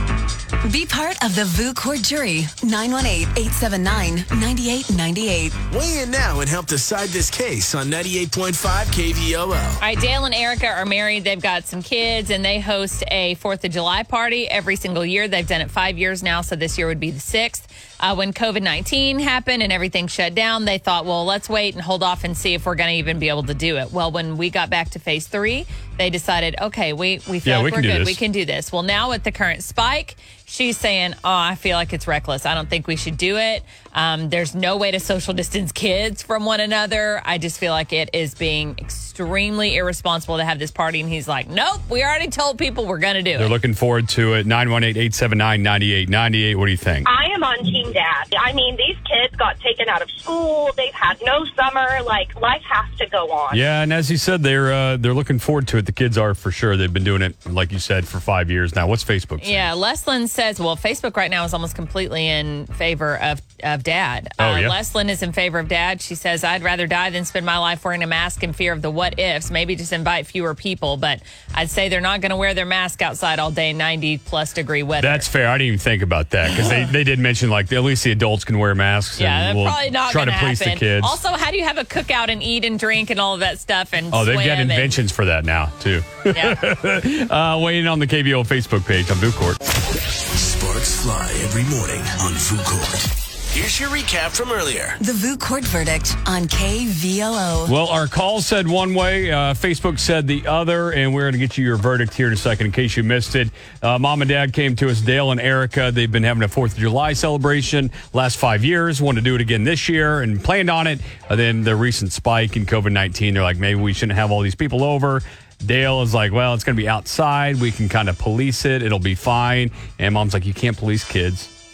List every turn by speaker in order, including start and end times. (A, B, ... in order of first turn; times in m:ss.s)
0:00.6-0:05.6 A
0:05.7-0:09.8 B
0:09.8-0:43.6 C
0:27.4-0:28.2 D
0:43.4-0:47.1 D
0:47.0-0:53.6 E
0:53.5-0:59.7 D
0:59.4-1:15.3 C
1:04.4-1:04.8 D
1:15.0-1:21.2 D
1:16.5-1:16.9 C
1:19.2-1:25.0 C
1:24.1-1:29.6 D
1:26.3-1:26.6 C
1:30.4-1:35.0 B
1:35.0-1:37.7 A
1:37.6-2:01.5 D